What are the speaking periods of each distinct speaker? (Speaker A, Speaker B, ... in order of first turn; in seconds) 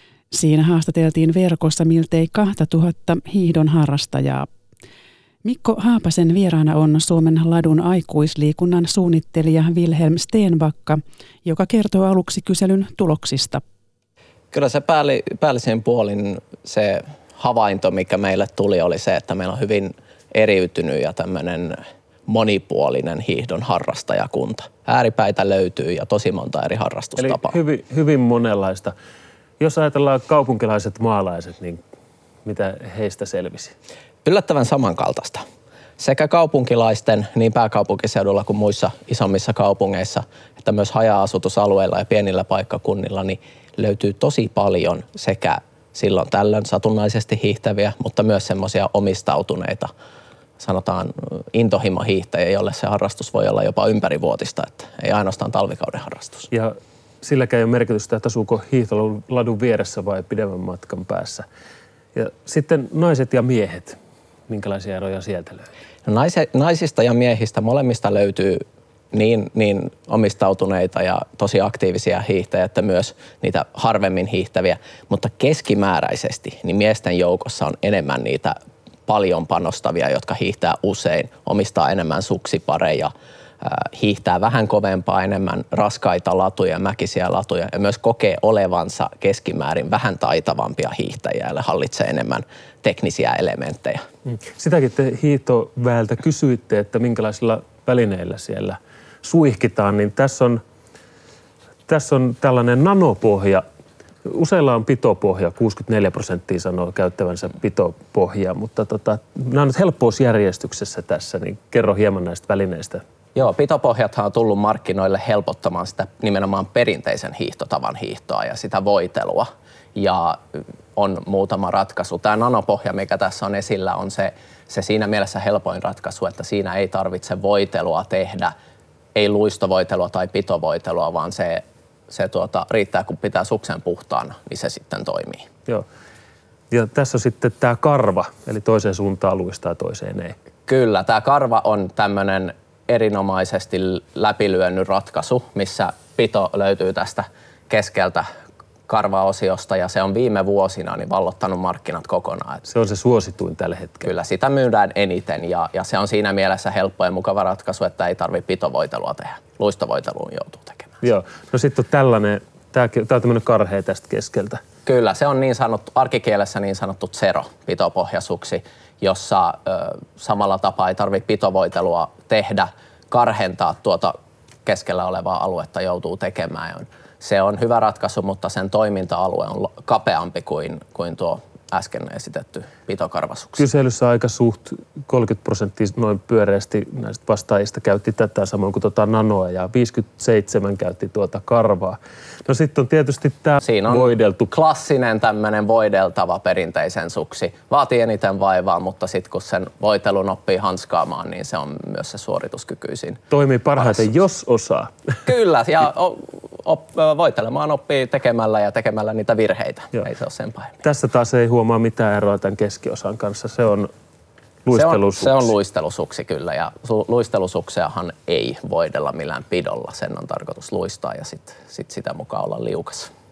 Speaker A: 0.3-4.5, 5.4-13.6
Speaker B: 14.5-27.6, 34.2-35.5, 36.0-49.9, 50.6-56.5, 66.1-94.0, 113.3-128.5, 129.2-135.5, 140.7-148.3, 148.9-152.7, 154.1-161.0, 164.8-183.7, 193.6-203.2, 203.8-204.1, 205.3-210.8, 214.7-223.1
Speaker C: 27.2-28.9, 29.6-31.8, 32.5-33.7, 56.5-61.5, 62.1-65.7, 94.3-100.6, 101.9-103.7, 104.3-113.0, 136.7-140.4, 152.7-154.1, 161.0-164.6, 183.6-194.5, 203.3-205.0, 210.8-213.9, 214.7-215.5